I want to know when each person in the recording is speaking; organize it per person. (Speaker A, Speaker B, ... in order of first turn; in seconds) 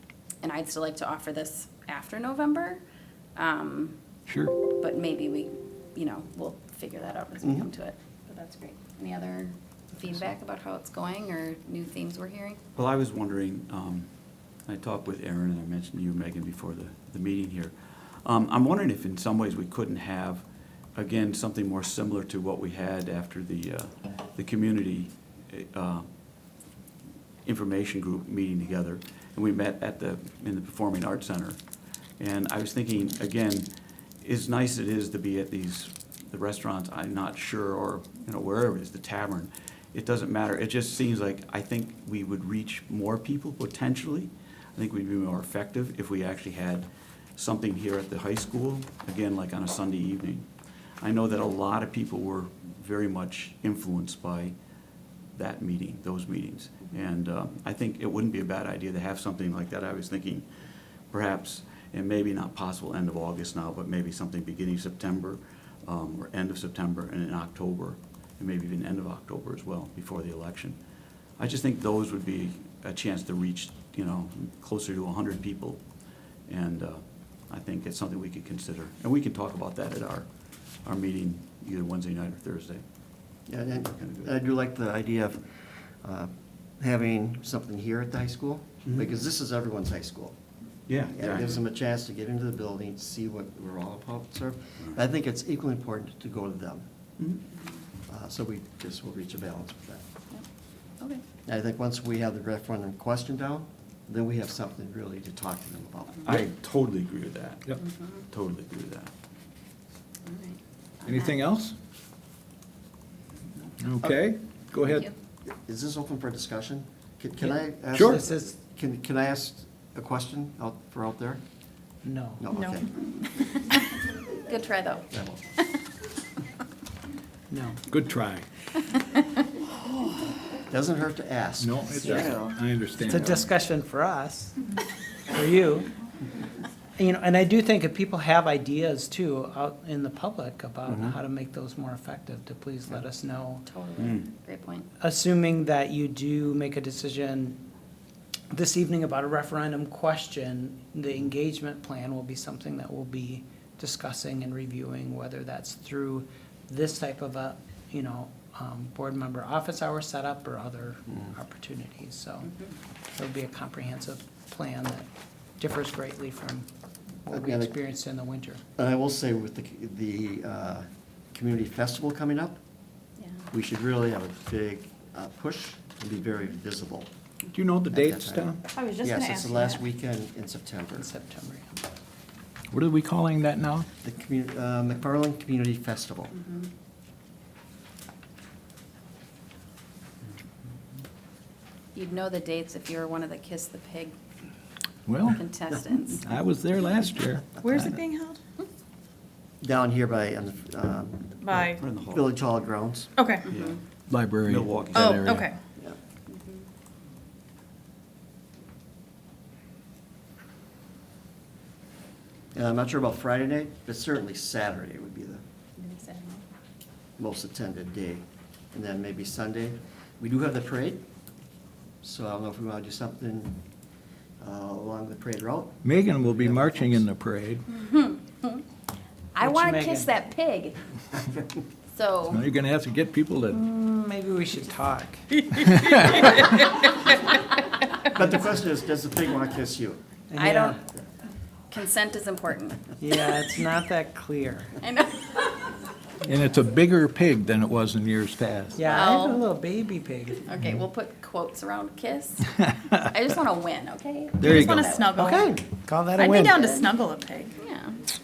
Speaker A: 0.4-2.8, 3.4-4.0, 4.8-12.6, 107.8-108.2, 110.2-111.3, 114.8-115.1, 123.4-123.8, 124.4-125.8, 143.7-144.9, 191.9-194.1, 195.2-196.3, 203.5-203.8, 206.3-206.6, 215.8-216.4, 227.7-228.6, 229.3-230.8, 231.9-232.4, 240.4-240.8, 241.7-242.8, 244.8-245.7, 248.8-249.4, 250.4-255.4, 256.2-256.9, 257.6-258.0
Speaker B: 4.3-4.5, 111.0-111.7, 113.8-115.1, 117.9-118.2, 127.9-128.4, 131.6-133.4, 177.5-178.6, 182.7-183.8, 195.1-195.4, 196.2-197.9, 204.1-205.4, 225.8-227.6, 232.3-233.6, 235.6-236.3, 246.2-248.8, 254.4-255.0
Speaker C: 7.4-7.7, 83.5-85.4, 86.0-90.3, 91.1-96.8, 98.1-100.0, 101.5-106.3, 115.5-121.4, 122.4-122.9, 125.1-125.4, 130.7-132.5, 140.9-141.2, 167.3-167.7, 168.8-172.6, 173.5-177.1, 177.9-181.1, 184.0-186.3, 199.6-203.1, 212.5-215.4, 217.2-221.0, 222.0-223.6, 224.4-225.8, 226.4-226.7, 238.1-240.0
Speaker D: 12.8-14.1, 14.7-20.4, 20.9-26.1, 27.4-31.6, 32.2-33.7, 34.2-50.5, 51.0-54.5, 55.3-60.5, 61.1-70.8, 71.4-75.8, 76.5-80.3, 80.8-82.8, 83.8-84.3, 90.9-91.6, 106.2-107.8, 108.3-109.1, 201.8-202.3, 203.5-203.8, 204.4-205.4
Speaker E: 118.1-118.5, 122.0-122.4, 127.5-127.8, 133.0-134.6, 135.3-135.9, 136.9-143.6, 145.0-147.6, 148.5-162.5, 163.1-165.1, 165.6-166.7, 167.2-168.6, 180.9-181.8, 229.4-230.1, 233.5-235.2, 240.3-240.8, 243.0-244.7, 248.7-250.4, 255.2-256.6
Speaker F: 122.5-122.8, 178.6-179.8, 197.6-198.4, 201.4-201.8, 203.2-203.5, 204.9-205.6, 254.5-255.5, 256.2-257.6